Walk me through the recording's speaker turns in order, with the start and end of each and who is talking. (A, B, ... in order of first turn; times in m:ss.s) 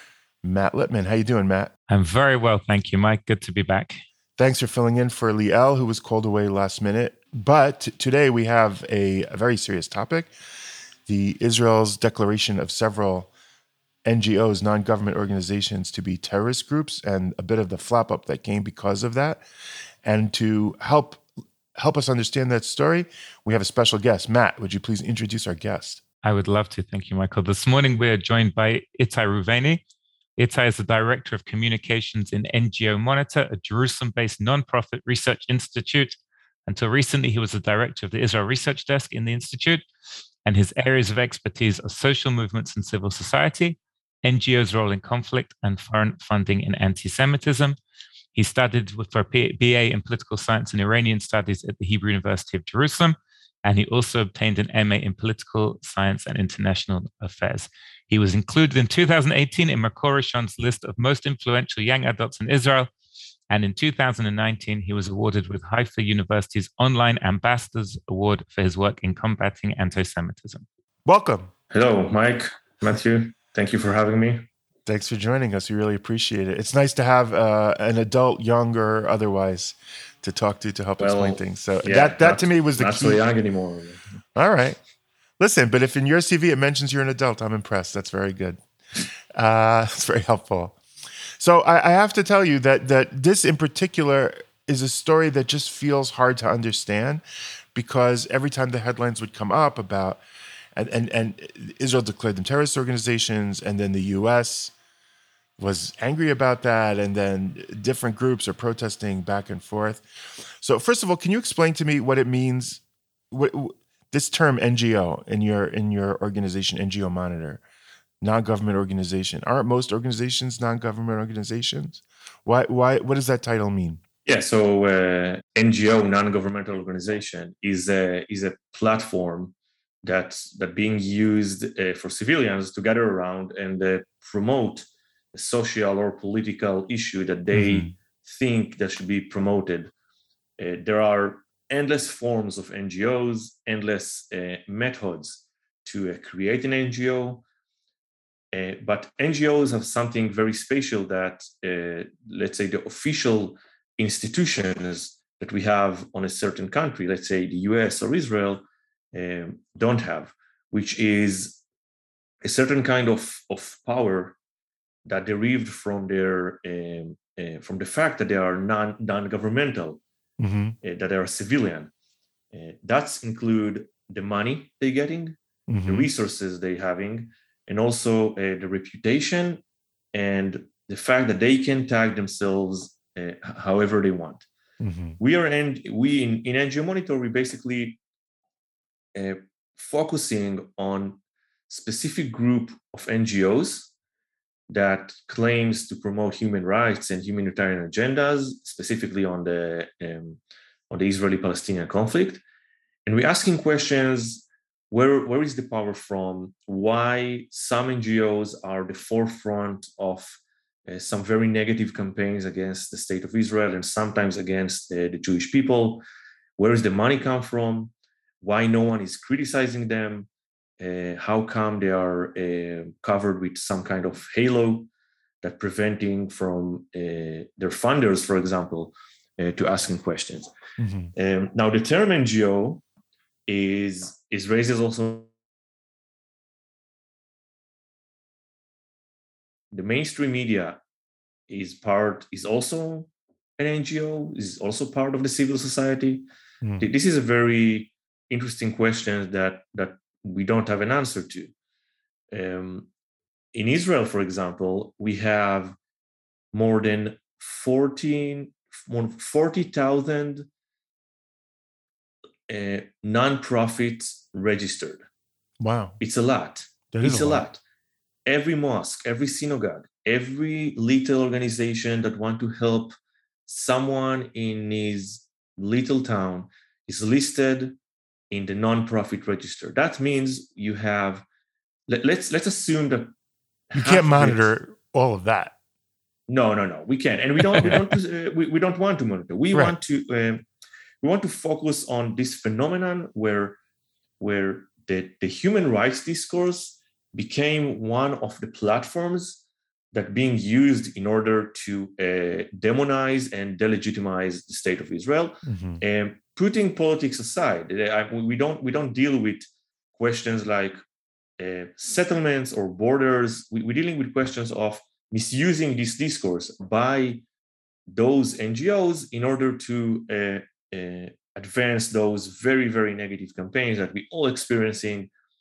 0:00.4-0:01.7 A
0:01.9-0:04.0 B
0:04.4-0:10.3 A
0:11.0-0:13.3 A
0:14.0-0:19.4 A
0:20.0-0:26.0 A
0:26.2-0:29.8 B
0:30.4-0:39.8 B
0:40.4-0:47.8 B
0:48.3-1:02.9 B
1:03.5-1:10.6 B
1:11.0-1:11.5 A
1:11.7-1:14.4 C
1:14.8-1:23.2 A
1:21.0-1:24.0 C
1:24.4-1:24.8 A
1:25.4-1:28.6 A
1:29.3-1:30.8 A
1:31.4-1:37.2 A
1:37.7-1:40.2 A
1:40.8-1:44.7 A
1:45.6-1:57.6 A
1:58.2-2:04.0 A
2:04.2-2:19.9 C
2:17.5-2:17.9 A
2:20.6-2:27.4 C
2:28.5-2:41.6 C
2:42.4-2:44.4 C
2:45.0-2:50.0 C
2:50.4-2:50.7 A
2:50.8-2:51.9 C
2:52.5-2:59.6 C
2:55.7-2:56.1 A
3:00.1-3:04.4 C
3:04.8-3:05.2 A
3:05.2-3:08.0 C
3:09.1-3:13.9 C
3:14.7-3:22.4 C
3:23.0-3:36.0 C
3:36.6-3:40.3 C
3:40.8-3:44.9 C
3:45.4-3:50.5 C
3:50.8-3:51.1 A
3:51.2-3:52.8 C
3:53.5-3:55.3 C
3:59.7-4:00.8 C
4:01.5-4:06.2 C
4:06.8-4:11.5 C
4:12.3-4:12.9 C
4:13.5-4:15.8 C
4:16.5-4:20.5 C
4:22.5-4:25.0 C
4:25.6-4:26.0 A
4:26.0-4:27.6 C
4:26.9-4:27.4 A
4:28.2-4:32.9 C
4:33.5-4:37.8 C
4:38.3-4:41.2 C
4:41.9-4:43.1 C
4:43.7-4:44.5 C
4:43.7-4:45.5 A
4:46.3-4:50.4 C
4:47.5-4:47.9 A
4:51.0-4:53.6 C
4:54.2-4:59.4 C
4:59.9-5:09.4 C
5:05.4-5:05.8 A
5:10.0-5:10.8 C
5:11.4-5:17.2 C
5:17.9-5:25.1 C